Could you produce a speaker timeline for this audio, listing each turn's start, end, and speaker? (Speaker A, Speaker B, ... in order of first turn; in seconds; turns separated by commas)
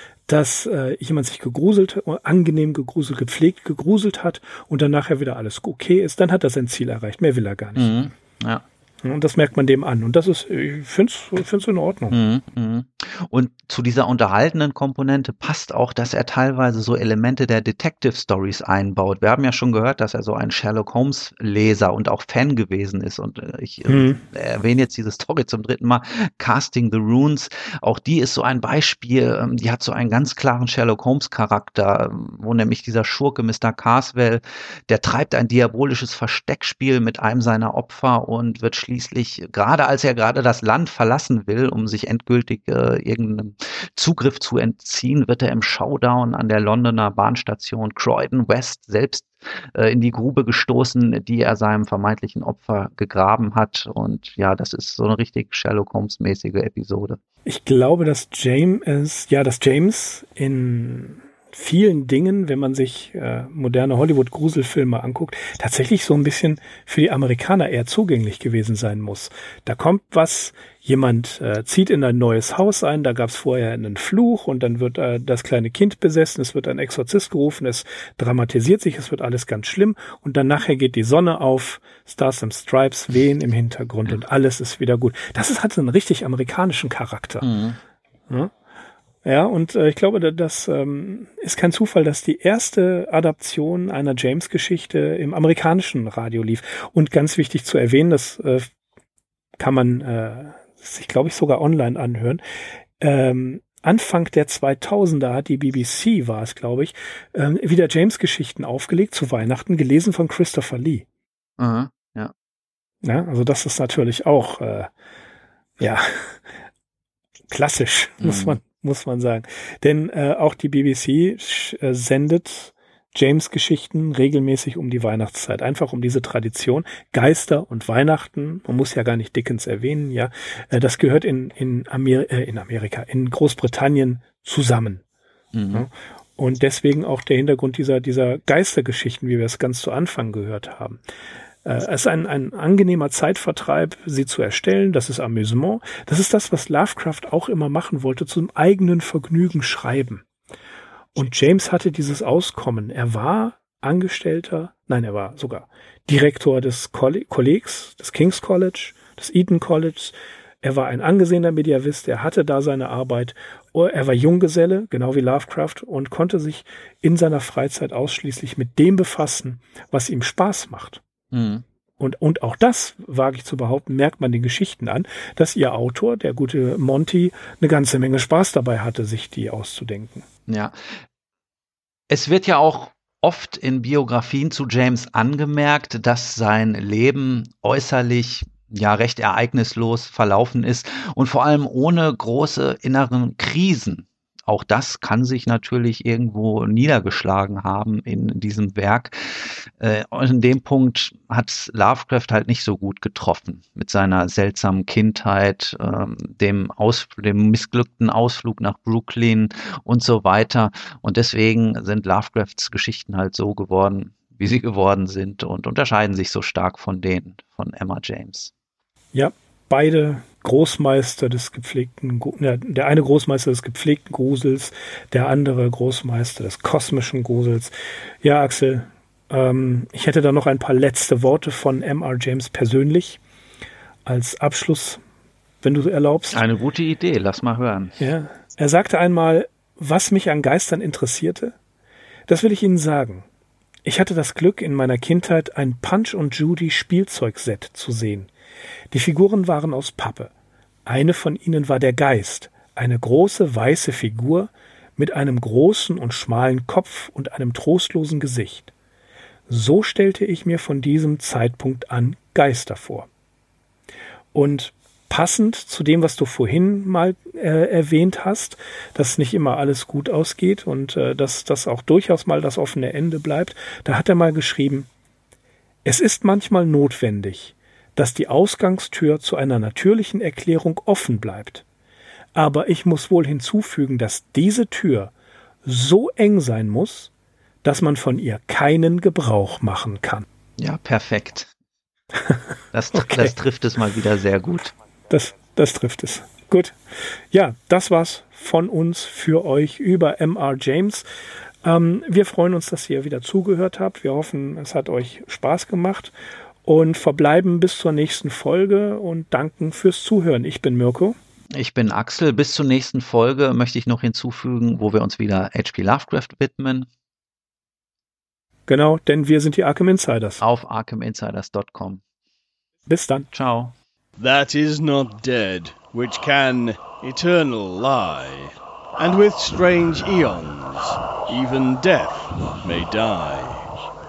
Speaker A: 0.3-8.0, Speaker B: 7.8-8.6, Speaker A: 9.0-12.2, Speaker B: 12.1-57.2, Speaker A: 23.9-24.2, Speaker A: 57.5-87.5, Speaker B: 87.4-87.8, Speaker A: 88.3-88.5, Speaker A: 89.2-98.7, Speaker A: 99.6-102.4, Speaker A: 103.0-111.0, Speaker B: 111.6-112.3, Speaker A: 113.0-114.9, Speaker A: 115.8-116.4, Speaker A: 117.5-135.0, Speaker B: 118.2-118.6, Speaker B: 135.5-135.9, Speaker A: 135.7-141.0, Speaker A: 141.6-150.2, Speaker A: 151.2-171.0, Speaker B: 171.3-171.6, Speaker A: 172.0-180.2, Speaker B: 180.5-180.8, Speaker B: 182.1-218.5, Speaker A: 219.1-233.2, Speaker A: 234.1-235.0, Speaker A: 235.6-236.4, Speaker B: 236.3-238.0, Speaker A: 238.0-241.6, Speaker A: 242.3-243.2, Speaker A: 243.8-248.3, Speaker A: 248.9-250.3, Speaker A: 250.9-258.7, Speaker A: 259.5-263.1, Speaker A: 264.3-274.9, Speaker A: 275.8-281.6, Speaker A: 282.3-285.1, Speaker A: 285.6-287.1, Speaker A: 287.6-290.3, Speaker B: 290.6-291.5, Speaker B: 292.7-294.7, Speaker A: 292.9-293.3, Speaker A: 295.1-296.8, Speaker A: 297.3-301.1, Speaker A: 301.6-306.1, Speaker A: 306.6-311.2, Speaker B: 311.5-316.9, Speaker A: 318.7-320.4, Speaker B: 320.4-322.0, Speaker A: 322.9-323.3, Speaker B: 323.3-323.8, Speaker C: 324.2-333.6